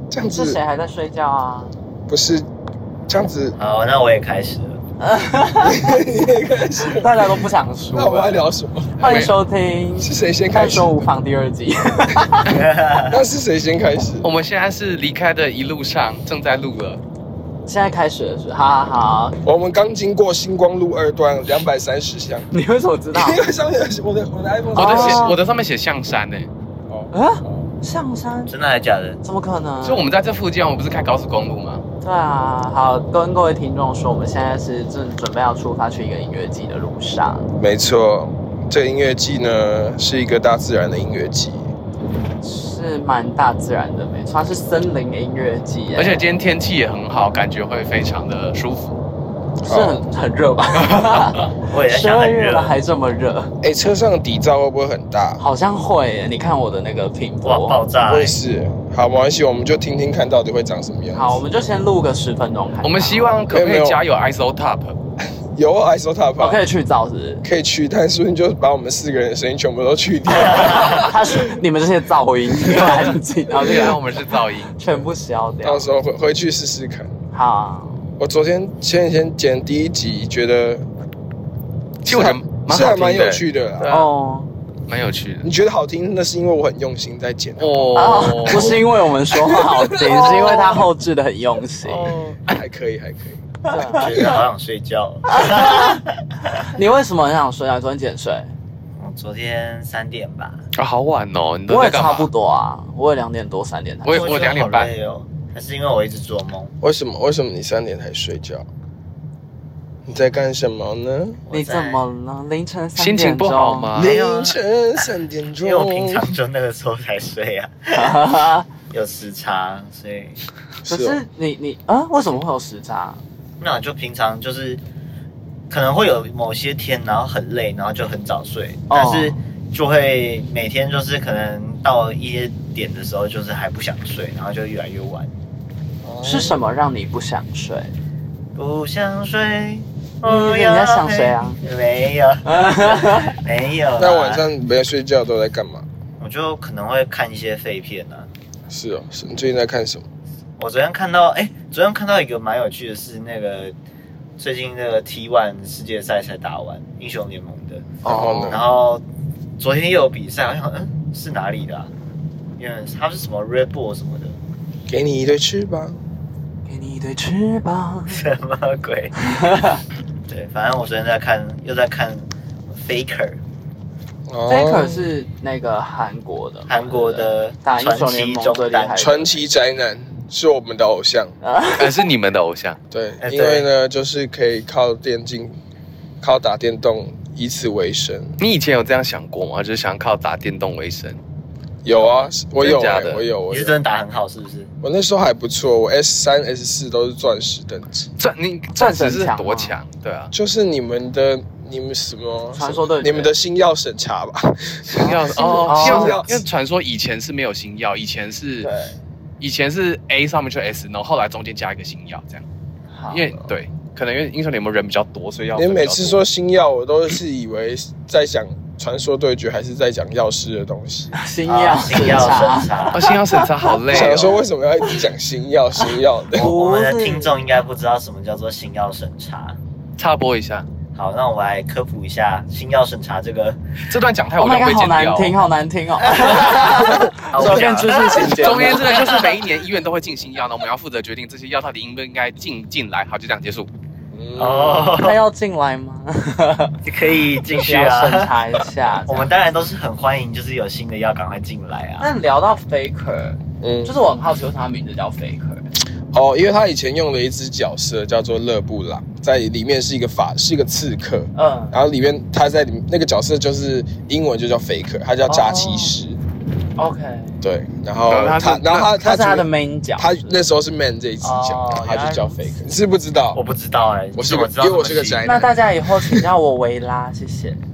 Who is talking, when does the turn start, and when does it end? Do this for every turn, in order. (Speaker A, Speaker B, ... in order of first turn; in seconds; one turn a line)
Speaker A: 0.1-0.6
Speaker B: 0.2-1.7
Speaker A: 2.1-2.5
Speaker A: 3.1-3.6
Speaker C: 3.6-4.8
Speaker B: 5.0-6.0
Speaker A: 5.6-7.4
Speaker B: 6.9-8.4
Speaker A: 7.9-9.2
Speaker B: 9.0-12.5
Speaker D: 9.0-9.3
Speaker A: 10.0-11.1
Speaker C: 12.5-13.2
Speaker A: 13.1-14.3
Speaker D: 14.2-17.0
Speaker B: 17.7-19.4
Speaker A: 19.4-22.5
Speaker B: 22.5-23.4
Speaker A: 23.1-25.4
Speaker B: 24.8-25.4
Speaker D: 24.8-26.5
Speaker A: 26.9-27.7
Speaker B: 27.1-28.5
Speaker C: 28.5-29.2
Speaker B: 29.2-30.1
Speaker D: 29.8-31.8
Speaker B: 32.0-37.5
Speaker A: 37.6-41.7
Speaker B: 42.4-46.3
Speaker D: 46.0-49.0
Speaker A: 49.6-50.0
Speaker B: 49.7-53.5
Speaker C: 51.6-52.8
Speaker A: 53.6-55.4
Speaker B: 55.4-57.8
Speaker C: 57.4-58.4
Speaker A: 58.1-61.4
Speaker B: 61.1-63.4
Speaker D: 62.8-65.0
Speaker A: 63.5-64.0
Speaker A: 65.5-66.6
Speaker B: 66.4-67.5
Speaker A: 67.4-71.5
Speaker B: 70.7-74.0
Speaker A: 72.7-73.0
Speaker A: 73.5-73.9
Speaker D: 73.5-74.7
Speaker B: 74.8-75.9
Speaker A: 75.6-77.1
Speaker B: 77.3-78.0
Speaker A: 78.2-80.9
Speaker A: 82.0-83.9
Speaker D: 82.0-84.1
Speaker B: 83.9-84.5
Speaker D: 84.9-85.5
Speaker A: 85.4-90.8
Speaker D: 87.6-88.8
Speaker B: 88.0-92.2
Speaker D: 90.1-90.6
Speaker D: 91.8-92.6
Speaker A: 92.5-93.4
Speaker B: 93.7-94.4
Speaker C: 93.9-96.0
Speaker A: 94.0-94.4
Speaker B: 95.3-96.0
Speaker B: 96.6-98.5
Speaker C: 99.0-100.6
Speaker D: 100.7-102.3
Speaker B: 101.7-104.3
Speaker D: 104.0-104.9
Speaker C: 104.1-106.7
Speaker A: 106.8-108.7
Speaker A: 110.1-111.4
Speaker C: 111.5-112.0
Speaker B: 111.5-113.9
Speaker D: 113.0-114.1
Speaker A: 114.0-116.2
Speaker C: 114.0-115.1
Speaker C: 115.6-118.3
Speaker B: 118.0-118.7
Speaker C: 118.9-120.4
Speaker A: 120.8-121.2
Speaker B: 120.9-123.2
Speaker C: 123.6-124.8
Speaker C: 125.7-135.3
Speaker B: 128.9-129.3
Speaker A: 136.0-136.6
Speaker B: 136.2-137.9
Speaker C: 138.6-144.4
Speaker B: 140.2-141.6
Speaker B: 142.4-143.4
Speaker A: 144.0-145.9
Speaker C: 146.2-148.3
Speaker A: 148.7-150.0
Speaker C: 150.6-153.8
Speaker C: 154.4-159.0
Speaker A: 158.0-158.7
Speaker C: 159.6-161.9
Speaker C: 162.6-164.3
Speaker A: 164.9-166.0
Speaker B: 166.7-168.2
Speaker C: 168.1-169.1
Speaker B: 169.2-169.8
Speaker C: 170.3-173.4
Speaker A: 174.3-175.1
Speaker B: 174.5-179.4
Speaker C: 176.7-179.2
Speaker A: 178.9-181.3
Speaker B: 181.4-181.9
Speaker D: 181.8-182.8
Speaker A: 182.9-185.6
Speaker C: 183.2-183.7
Speaker A: 186.2-188.4
Speaker D: 188.4-191.2
Speaker A: 191.8-193.8
Speaker D: 192.6-193.2
Speaker C: 193.5-194.7
Speaker A: 194.8-198.1
Speaker D: 198.2-200.3
Speaker B: 198.7-199.8
Speaker A: 200.3-206.4
Speaker B: 202.6-203.3
Speaker D: 204.8-208.7
Speaker B: 205.5-206.2
Speaker B: 208.6-209.0
Speaker D: 209.4-212.4
Speaker B: 212.9-213.4
Speaker D: 213.1-216.2
Speaker A: 215.6-221.2
Speaker B: 221.1-223.7
Speaker C: 221.5-223.0
Speaker D: 222.9-224.4
Speaker A: 223.9-226.5
Speaker C: 226.3-229.6
Speaker B: 226.3-227.3
Speaker D: 230.0-230.7
Speaker C: 230.9-233.6
Speaker D: 233.9-235.4
Speaker B: 234.4-239.0
Speaker C: 236.2-239.3
Speaker D: 238.2-243.7
Speaker A: 244.1-245.0
Speaker C: 244.4-245.2
Speaker B: 245.0-246.8
Speaker C: 246.8-248.3
Speaker B: 247.5-249.3
Speaker C: 249.1-252.1
Speaker B: 252.0-255.7
Speaker A: 253.6-253.9
Speaker A: 256.1-266.2
Speaker B: 261.4-261.8
Speaker B: 265.3-265.9
Speaker B: 266.8-267.4
Speaker A: 267.4-273.4
Speaker D: 268.1-268.9
Speaker B: 269.0-270.4
Speaker B: 271.2-272.6
Speaker C: 273.3-275.3
Speaker A: 274.1-276.2
Speaker B: 275.2-277.6